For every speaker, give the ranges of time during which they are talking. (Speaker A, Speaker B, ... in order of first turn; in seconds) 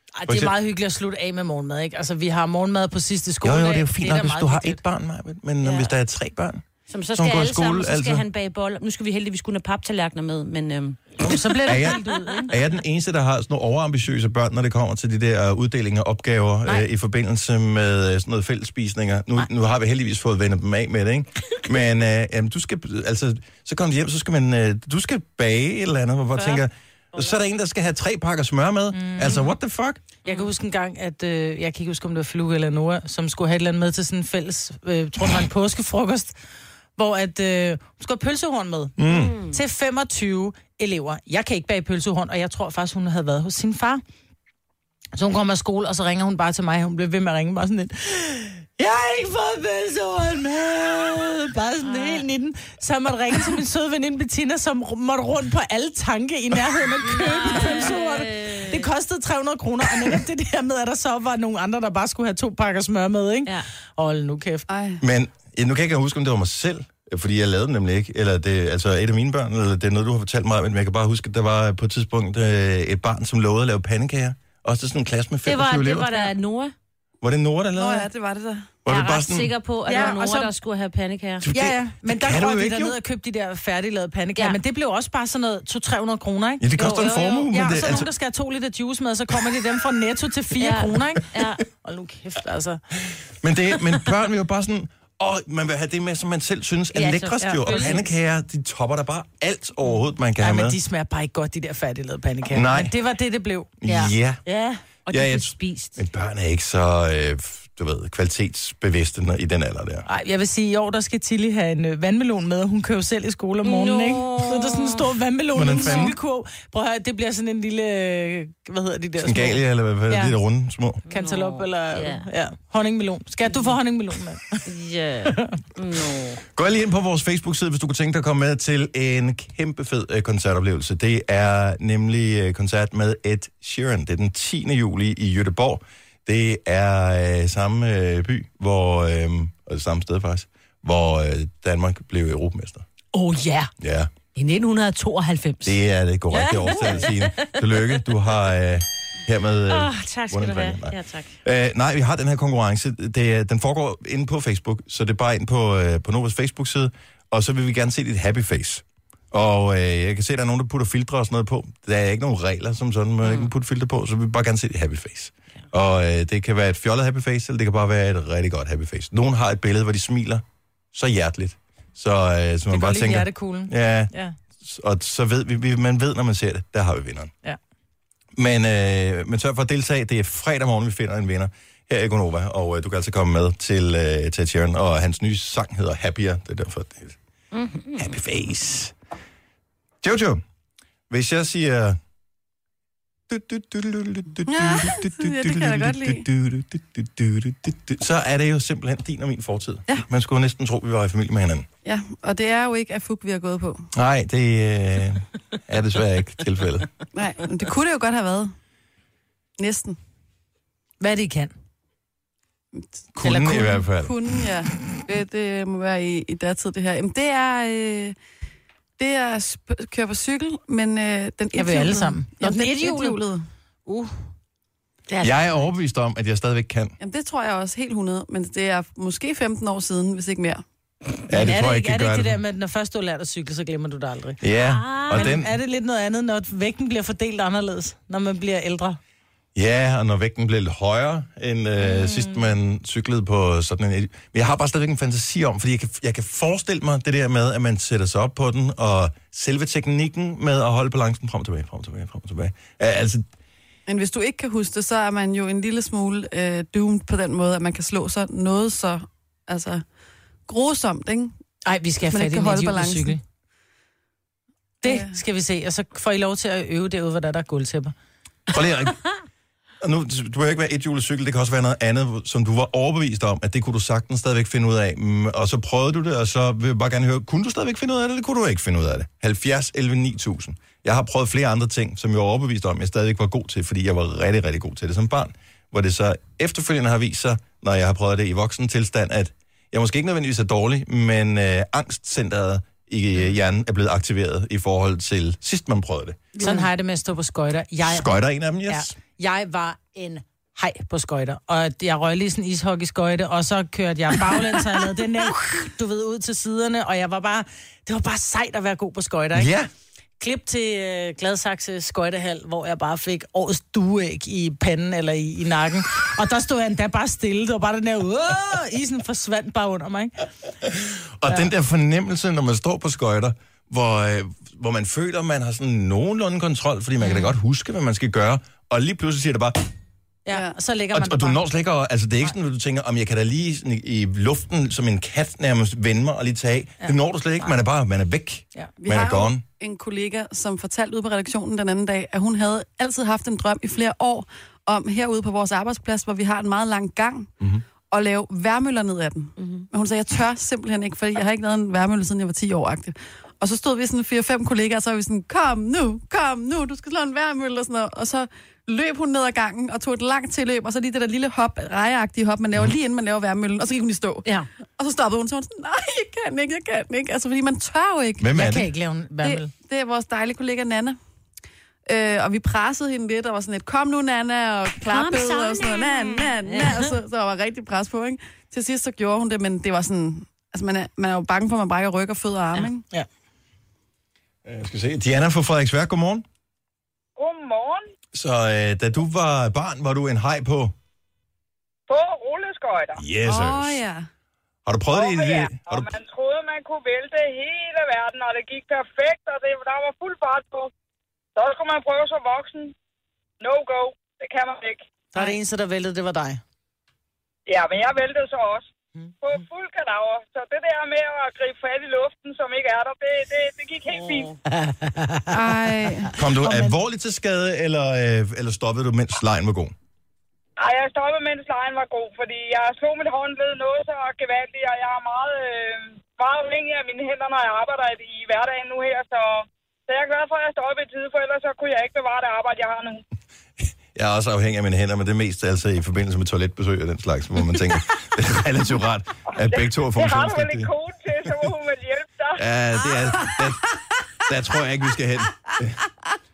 Speaker A: 0.2-4.8, 11.2-12.6, 28.9-29.4, 30.2-36.4, 37.0-39.0, 39.5-44.0, 45.2-64.7, 79.9-80.5, 81.5-92.8, 97.4-98.1, 100.4-104.8, 110.1-120.3, 121.1-124.6, 172.7-174.4, 211.0-211.5, 213.2-213.8, 221.6-223.2, 223.9-224.3, 231.3-234.4, 235.1-239.0, 261.6-263.2, 264.8-267.9, 296.4-298.1, 298.7-309.5, 310.2-320.3, 330.3-331.4, 336.8-337.5, 368.3-369.5, 382.6-383.1, 405.1-406.4, 414.5-415.3, 416.3-416.8
Speaker B: 0.3-0.5, 3.4-8.2, 11.7-30.0, 39.0-39.4, 65.0-76.3, 77.2-78.1, 78.8-79.5, 81.4-83.0, 86.6-88.1, 93.4-100.8, 102.5-102.9, 103.8-104.4, 105.1-110.0, 115.5-116.2, 119.2-121.0, 126.5-142.9, 143.8-144.1, 145.6-177.3, 178.4-187.2, 188.0-188.9, 190.0-190.4, 191.1-192.0, 193.3-201.7, 203.9-206.9, 213.2-214.2, 225.2-227.0, 231.3-232.4, 234.4-235.5, 239.6-253.3, 268.5-269.0, 269.8-296.4, 297.8-298.9, 309.3-309.7, 320.7-329.6, 330.9-339.4, 368.2-368.7, 384.4-386.2, 388.1-390.7, 393.0-393.8, 394.7-396.0, 416.2-419.7, 433.6-440.7, 442.4-443.7, 444.3-445.8
Speaker C: 5.6-5.9, 6.9-11.3, 30.2-30.5, 39.1-39.6, 51.8-52.3, 57.0-58.9, 75.5-76.7, 78.9-81.5, 86.8-87.4, 90.6-91.6, 96.9-98.0, 105.1-106.0, 113.6-115.0, 115.8-116.1, 121.1-122.3, 124.7-126.4, 143.1-143.7, 144.3-145.8, 146.3-148.0, 149.7-151.3, 163.2-163.5, 187.5-188.1, 234.6-235.3, 242.0-242.2, 349.4-349.7, 374.8-377.0
Speaker D: 64.7-65.0, 77.8-78.7, 194.5-196.3, 201.8-203.9, 207.1-208.5, 209.6-210.0, 212.7-218.2, 219.0-223.4, 227.0-230.6, 253.9-259.8, 260.5-261.4, 262.1-263.2, 264.8-265.2, 338.8-347.3, 347.9-364.2, 364.8-368.3, 369.2-371.0, 371.9-382.8, 393.2-394.1, 415.3-416.1
Speaker E: 387.2-387.9, 391.9-393.0, 394.9-400.7, 401.4-402.7, 403.4-404.9, 407.5-408.7, 409.2-414.3, 420.6-433.0, 439.3-442.5